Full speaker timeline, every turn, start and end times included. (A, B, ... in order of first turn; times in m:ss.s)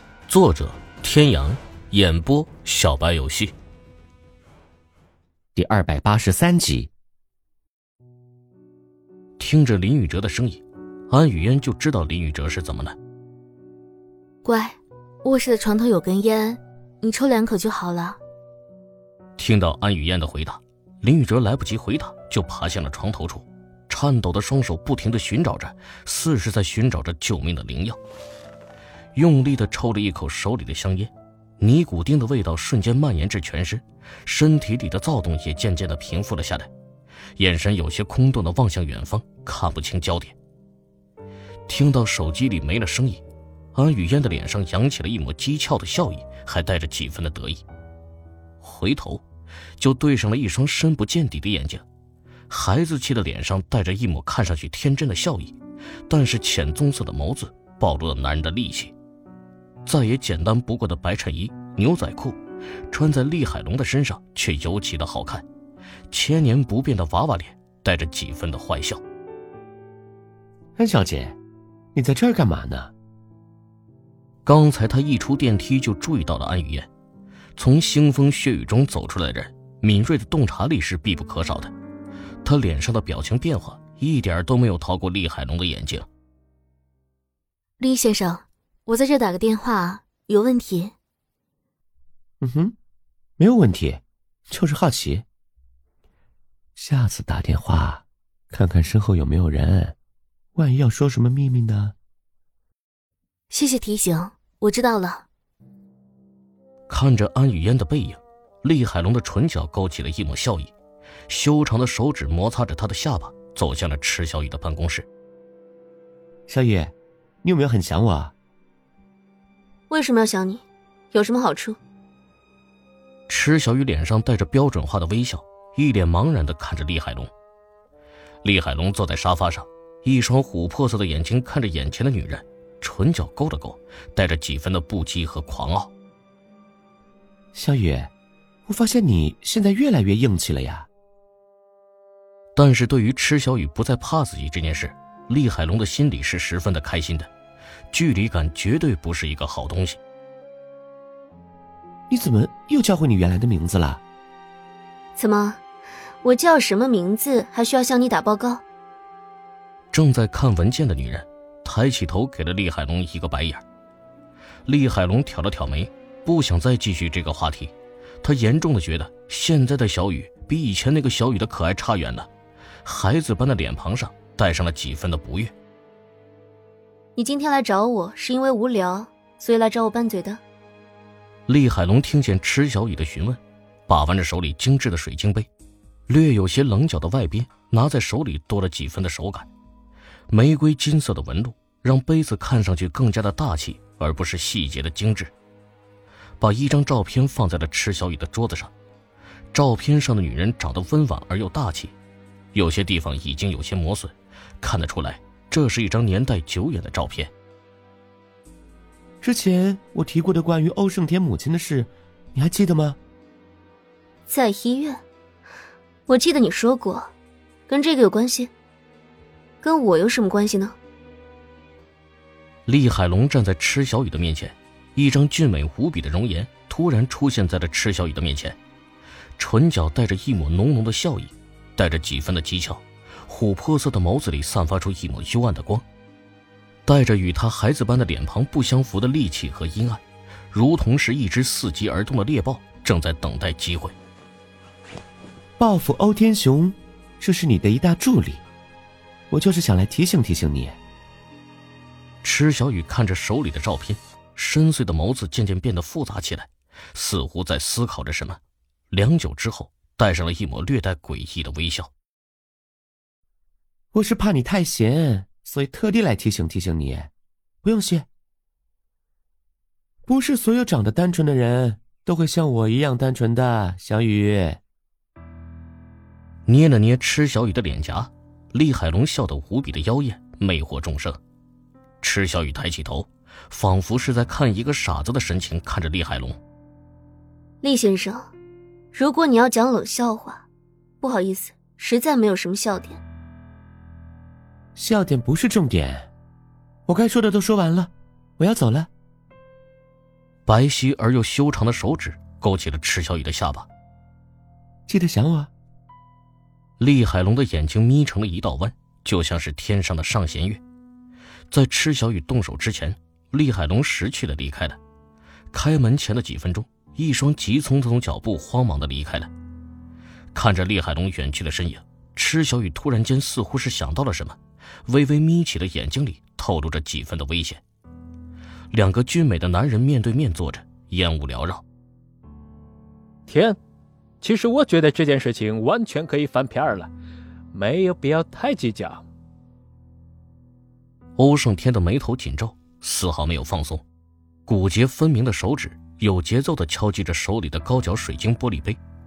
0:00.3-0:03.5 A
0:05.6-0:06.9 B
0:09.4-0:13.0 A
0:14.4-0:18.2 C
0:19.4-0:28.0 A
0:29.2-0:36.7 A
0:37.4-0:40.4 A
0:41.7-0:43.2 A
0:43.7-0:47.6 A
0:48.6-0:49.2 A
0:49.8-0:51.8 A
0:52.5-0:55.6 A
0:56.1-0:58.9 A
0:59.9-1:02.4 A
1:02.9-1:05.4 A
1:06.1-1:09.0 A
1:10.8-1:11.4 B
1:12.0-1:12.9 B
1:14.4-1:16.9 A
1:17.6-1:21.7 A
1:22.4-1:26.1 A
1:27.8-1:31.0 C
1:32.4-1:32.8 B
1:33.4-1:35.2 B
1:36.8-1:40.0 B
1:40.6-1:41.9 B
1:43.5-1:45.2 C
1:46.9-1:50.7 A
1:51.3-1:55.1 A
1:56.5-1:56.9 B
1:57.4-1:58.3 B
1:59.9-2:01.8 C
2:03.3-2:07.3 A
2:08.4-2:15.9 A
2:17.5-2:18.1 B
2:18.7-2:20.9 B
2:22.6-2:27.3 A
2:27.9-2:30.0 A
2:32.1-2:34.0 B
2:35.2-2:35.6 C
2:36.2-2:38.6 C
2:39.9-2:43.6 A
2:44.7-2:52.3 A
2:52.8-2:55.5 A
2:57.2-3:00.4 C
3:01.5-3:05.5 A
3:06.1-3:09.5 A
3:10.3-3:15.3 A
3:16.4-3:18.7 A
3:19.5-3:21.9 A
3:22.5-3:27.3 A
3:29.2-3:33.0 B
3:34.3-3:35.0 C
3:36.1-3:37.1 C
3:37.7-3:38.5 C
3:39.6-3:40.8 C
3:42.7-3:48.6 A
3:49.4-3:55.8 A
3:56.9-4:03.9 A
4:05.6-4:08.4 B
4:09.3-4:10.8 B
4:12.2-4:18.4 A
4:18.9-4:21.9 A
4:23.9-4:27.1 B
4:27.6-4:28.1 B
4:30.1-4:34.6 B
4:36.5-4:41.2 A
4:42.0-4:46.4 A
4:47.6-4:48.3 C
4:48.9-4:50.5 C
4:51.0-4:53.0 C
4:54.8-4:56.1 B
4:56.9-4:58.9 B
5:00.5-5:03.7 A
5:04.9-5:05.5 B
5:06.8-5:10.6 A
5:11.5-5:14.8 A
5:15.5-5:19.3 A
5:20.3-5:27.6 A
5:28.7-5:31.6 A
5:33.3-5:33.6 D
5:34.2-5:36.9 D
5:37.5-5:39.0 D
5:41.2-5:43.8 A
5:44.5-5:48.8 A